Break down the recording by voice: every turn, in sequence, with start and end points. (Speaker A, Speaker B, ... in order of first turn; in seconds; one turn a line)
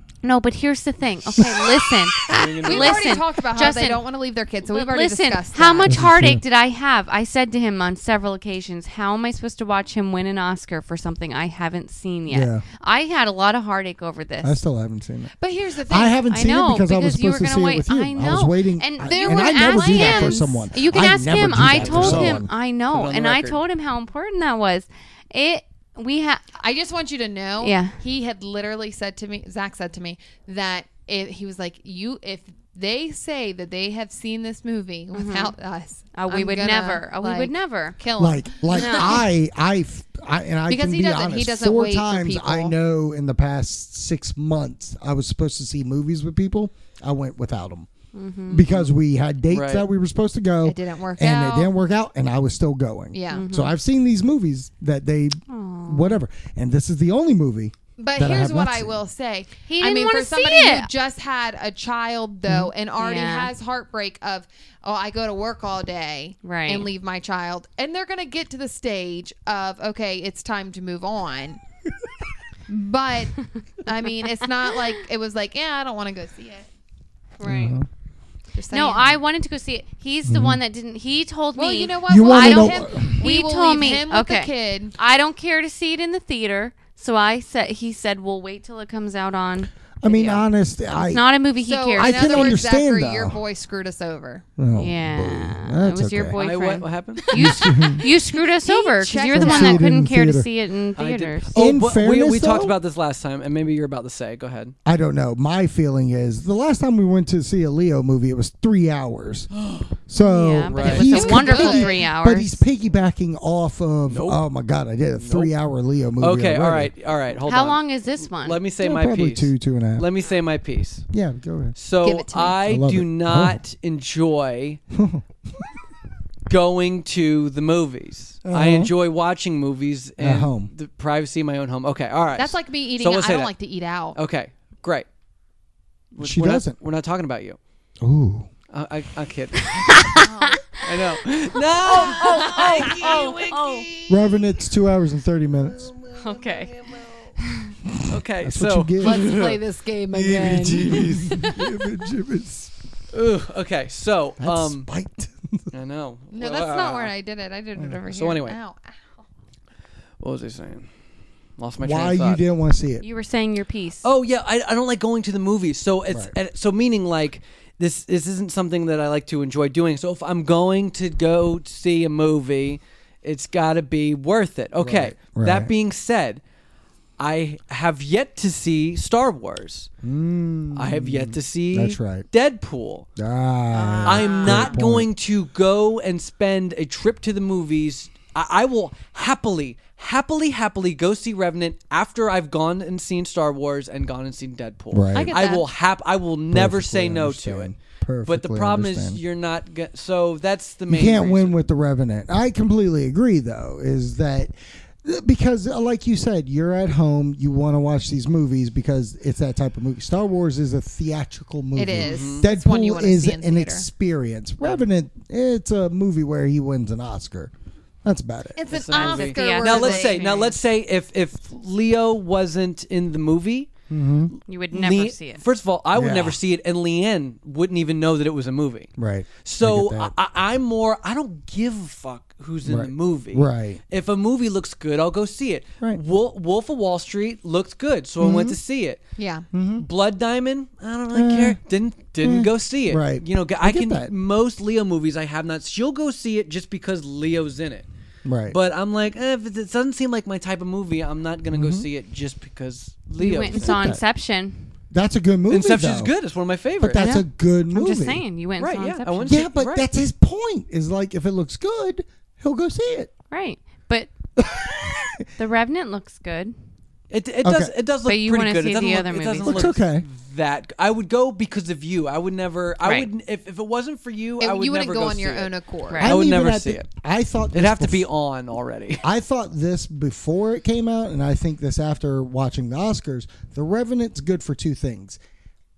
Speaker A: 0.2-4.0
Speaker B: 1.4-2.5
Speaker C: 2.3-3.2
Speaker D: 2.6-6.0
Speaker A: 4.7-14.6
Speaker B: 5.8-6.4
Speaker B: 12.3-12.6
Speaker B: 14.4-15.3
Speaker D: 15.4-16.2
Speaker B: 15.9-22.5
Speaker A: 16.3-26.4
Speaker D: 19.0-20.7
Speaker C: 21.6-23.6
Speaker D: 26.6-39.2
Speaker A: 27.6-28.0
Speaker A: 35.1-35.5
Speaker A: 36.1-38.0
Speaker B: 38.2-47.9
Speaker A: 38.7-39.2
Speaker D: 40.7-42.7
Speaker A: 48.1-48.7
Speaker B: 48.5-59.0
Speaker C: 49.5-49.9
Speaker D: 50.6-51.7
Speaker D: 53.1-53.5
Speaker A: 53.3-53.8
Speaker A: 55.5-56.2
Speaker D: 58.0-71.6
Speaker A: 59.7-60.9
Speaker B: 62.5-62.7
Speaker A: 63.0-63.5
Speaker A: 66.4-66.9
Speaker D: 72.7-76.7
Speaker A: 77.4-77.8
Speaker B: 77.4-77.9
Speaker D: 78.5-79.2
Speaker A: 78.7-92.6
Speaker B: 80.3-80.6
Speaker D: 81.5-85.0
Speaker B: 82.1-83.2
Speaker B: 90.0-91.3
Speaker D: 91.6-94.5
Speaker B: 92.0-93.4
Speaker B: 94.6-96.4
Speaker A: 94.8-101.5
Speaker C: 96.3-97.3
Speaker D: 97.3-99.9
Speaker B: 97.3-98.0
Speaker B: 99.3-100.5
Speaker C: 101.0-104.7
Speaker B: 101.5-102.7
Speaker B: 104.8-109.5
Speaker C: 109.6-109.9
Speaker B: 110.1-116.9
Speaker A: 110.2-112.6
Speaker C: 110.7-111.5
Speaker D: 110.8-112.1
Speaker C: 114.1-114.4
Speaker C: 115.2-115.5
Speaker C: 116.2-121.0
Speaker A: 117.4-118.6
Speaker B: 118.8-120.1
Speaker B: 121.1-121.8
Speaker C: 121.8-124.8
Speaker D: 122.0-122.6
Speaker B: 122.6-123.6
Speaker B: 124.9-125.2
Speaker C: 126.5-133.5
Speaker B: 128.5-128.9
Speaker B: 130.2-130.7
Speaker D: 132.4-134.2
Speaker C: 134.1-135.1
Speaker C: 136.2-137.6
Speaker B: 136.2-136.8
Speaker B: 138.0-138.5
Speaker C: 138.7-140.2
Speaker A: 139.6-141.0
Speaker D: 140.2-140.7
Speaker C: 140.7-144.5
Speaker A: 141.9-143.9
Speaker D: 142.0-143.3
Speaker B: 144.1-145.9
Speaker C: 145.5-147.3
Speaker A: 146.2-146.7
Speaker A: 147.4-147.7
Speaker C: 148.0-151.5
Speaker B: 148.4-149.3
Speaker D: 149.0-151.5
Speaker B: 151.3-152.7
Speaker C: 153.1-154.9
Speaker B: 154.4-155.7
Speaker C: 155.7-157.1
Speaker D: 156.3-159.0
Speaker C: 158.1-158.6
Speaker C: 160.2-160.9
Speaker C: 161.6-162.4
Speaker B: 161.8-163.1
Speaker A: 163.0-164.1
Speaker C: 164.0-176.4
Speaker B: 174.8-175.7
Speaker C: 177.2-179.9
Speaker B: 180.0-182.3
Speaker C: 180.8-183.1
Speaker B: 183.2-185.1
Speaker D: 183.7-184.8
Speaker C: 184.0-201.6
Speaker B: 194.9-195.3
Speaker D: 195.2-195.7
Speaker B: 196.5-199.2
Speaker B: 200.9-217.5
Speaker D: 211.8-213.9
Speaker C: 212.0-212.5
Speaker B: 218.0-218.6
Speaker D: 218.6-220.5
Speaker C: 218.7-223.7
Speaker A: 218.9-220.5
Speaker B: 223.9-224.3
Speaker C: 224.4-228.9
Speaker A: 224.5-225.4
Speaker B: 225.9-226.4
Speaker B: 229.0-230.1
Speaker C: 229.4-239.0
Speaker B: 232.7-233.8
Speaker B: 238.2-238.6
Speaker D: 239.2-239.5
Speaker B: 239.5-239.9
Speaker C: 239.8-247.9
Speaker B: 241.1-241.6
Speaker B: 242.2-244.1
Speaker B: 248.2-248.6
Speaker C: 248.5-254.0
Speaker B: 251.5-251.9
Speaker A: 253.2-254.7
Speaker B: 253.5-254.0
Speaker B: 254.9-256.1
Speaker C: 255.5-257.0
Speaker B: 256.8-258.2
Speaker A: 257.0-259.4
Speaker C: 258.6-259.9
Speaker B: 259.3-263.1
Speaker A: 263.3-264.1
Speaker B: 264.4-265.2
Speaker A: 265.4-266.5
Speaker C: 267.1-276.9
Speaker B: 267.4-267.7
Speaker A: 268.1-269.7
Speaker B: 269.4-270.1
Speaker A: 272.8-273.1
Speaker D: 274.4-276.1
Speaker B: 276.0-278.1
Speaker C: 277.5-279.1
Speaker B: 279.0-285.2